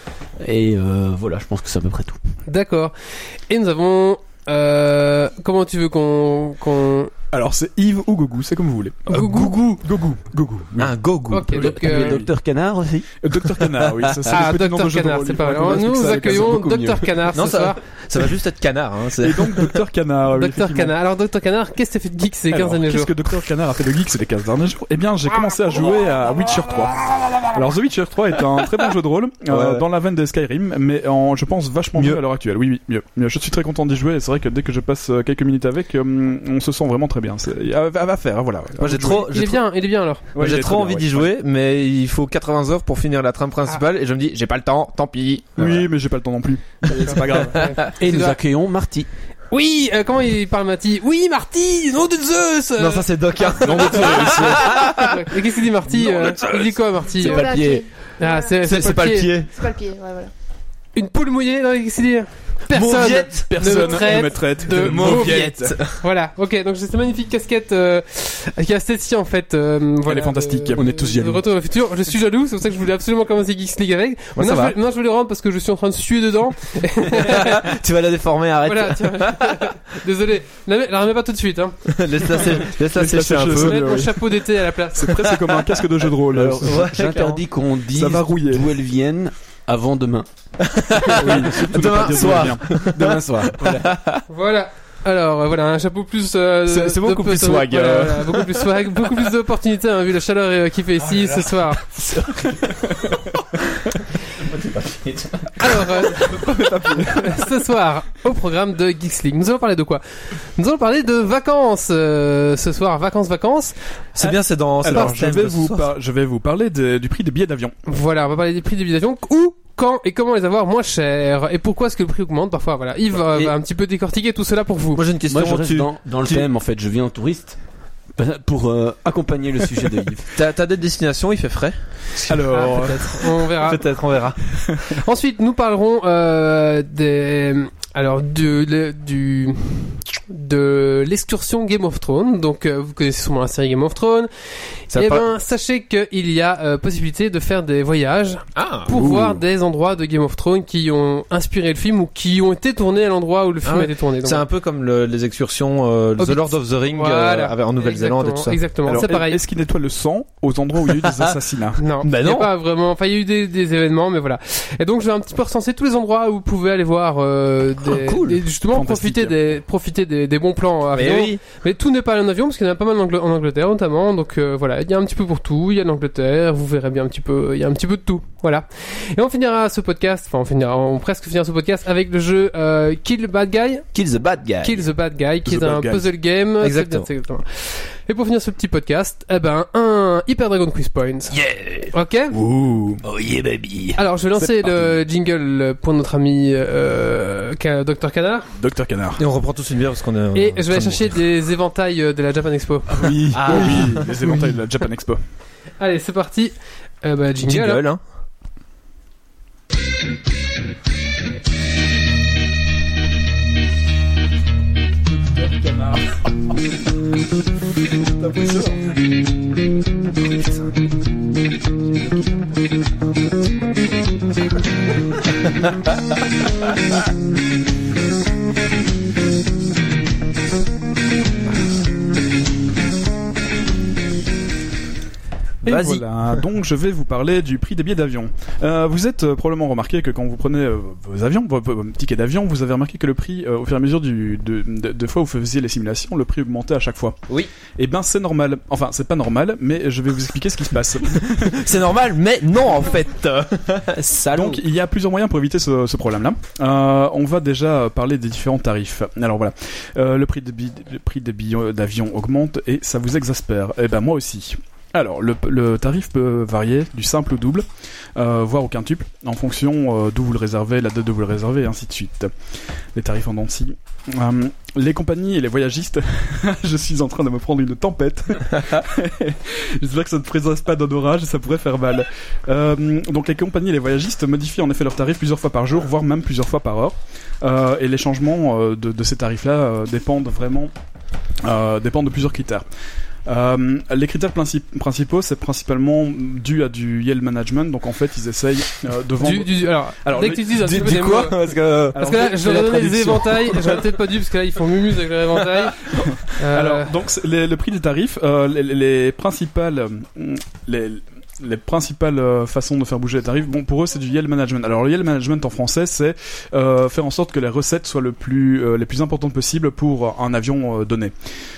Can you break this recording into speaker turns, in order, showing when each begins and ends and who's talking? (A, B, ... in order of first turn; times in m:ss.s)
0:00.4-0:02.2 A
0:02.5-0:07.1 B
0:07.3-0:10.9 C
0:09.1-0:09.8 B
0:10.8-0:11.6 D
0:11.3-0:12.2 B
0:11.5-0:12.3 C
0:11.6-0:13.1 A
0:13.2-0:16.9 C
0:13.8-0:14.4 D
0:14.3-0:17.8 B
0:16.1-0:17.0 A
0:17.3-0:19.7 D
0:19.2-0:20.9 C
0:20.4-0:23.1 B
0:22.5-0:39.4 C
0:29.5-0:29.8 D
0:31.9-0:32.2 D
0:38.7-0:39.6 D
0:39.2-0:40.2 B
0:40.3-0:41.3 C
0:40.3-0:45.9 D
0:45.6-0:47.7 C
0:46.8-0:47.8 D
0:46.9-0:48.4 B
0:48.0-0:49.1 A
0:49.5-0:57.6 B
0:52.8-0:57.8 D
0:53.6-0:54.5 C
0:57.2-0:58.6 E
0:58.2-0:59.3 B
0:58.6-0:59.5 D
0:59.4-1:00.3 E
1:00.9-1:17.7 B
1:02.7-1:06.0 D
1:03.4-1:05.8 C
1:10.0-1:10.9 C
1:10.8-1:11.4 A
1:14.4-1:14.8 D
1:17.0-1:19.7 D
1:18.6-1:22.6 B
1:21.9-1:24.1 D
1:22.9-1:24.2 C
1:23.4-1:25.2 B
1:24.9-1:26.8 C
1:25.1-1:26.1 D
1:26.3-1:30.3 A
1:26.6-1:27.4 D
1:27.9-1:28.7 C
1:30.6-1:34.2 D
1:31.1-1:34.1 A
1:31.2-1:32.8 C
1:34.3-1:41.8 B
1:36.6-1:38.7 D
1:41.0-1:42.9 D
1:43.8-1:46.4 D
1:45.6-1:53.8 B
1:46.4-1:47.2 C
1:54.1-1:55.9 D
1:54.8-1:57.7 C
1:57.9-2:05.0 B
2:03.3-2:03.5 D
2:04.9-2:06.5 D
2:05.3-2:07.6 A
2:08.2-2:10.3 A
2:10.3-2:14.4 D
2:12.3-2:13.2 C
2:12.5-2:13.9 B
2:14.9-2:24.3 B
2:24.9-2:34.4 B
2:24.9-2:25.2 D
2:28.6-2:29.4 D
2:33.6-2:38.6 D
2:36.2-2:39.4 B
2:38.8-2:41.8 C
2:41.0-2:41.3 D
2:41.8-3:03.8 B
2:42.0-2:42.5 D
2:47.8-2:48.4 D
2:48.7-2:49.3 C
2:50.9-2:51.4 D
3:03.9-3:04.9 D
3:04.6-3:11.4 B
3:05.4-3:06.0 C
3:06.6-3:07.1 D
3:11.3-3:11.9 D
3:11.9-3:12.4 B
3:12.3-3:13.0 C
3:13.0-3:14.0 D
3:14.0-3:18.5 B
3:18.6-3:19.2 C
3:19.2-3:21.2 D
3:20.3-3:23.2 B
3:23.0-3:24.1 D
3:23.1-3:23.6 A
3:23.2-3:25.2 C
3:25.8-3:27.8 B
3:27.4-3:28.0 D
3:55.6-3:56.4 D
3:55.6-4:07.2 C
4:07.8-4:11.6 C
4:11.4-4:14.6 D
4:14.3-4:32.3 C
4:32.9-4:50.7 C
4:51.4-4:52.6 C
4:53.2-5:00.6 C
4:59.2-5:01.4 B
5:00.5-5:02.9 D
5:01.9-5:03.8 C
5:02.0-5:05.8 B
5:03.5-5:03.7 D
5:06.0-5:21.1 C
5:06.4-5:06.9 B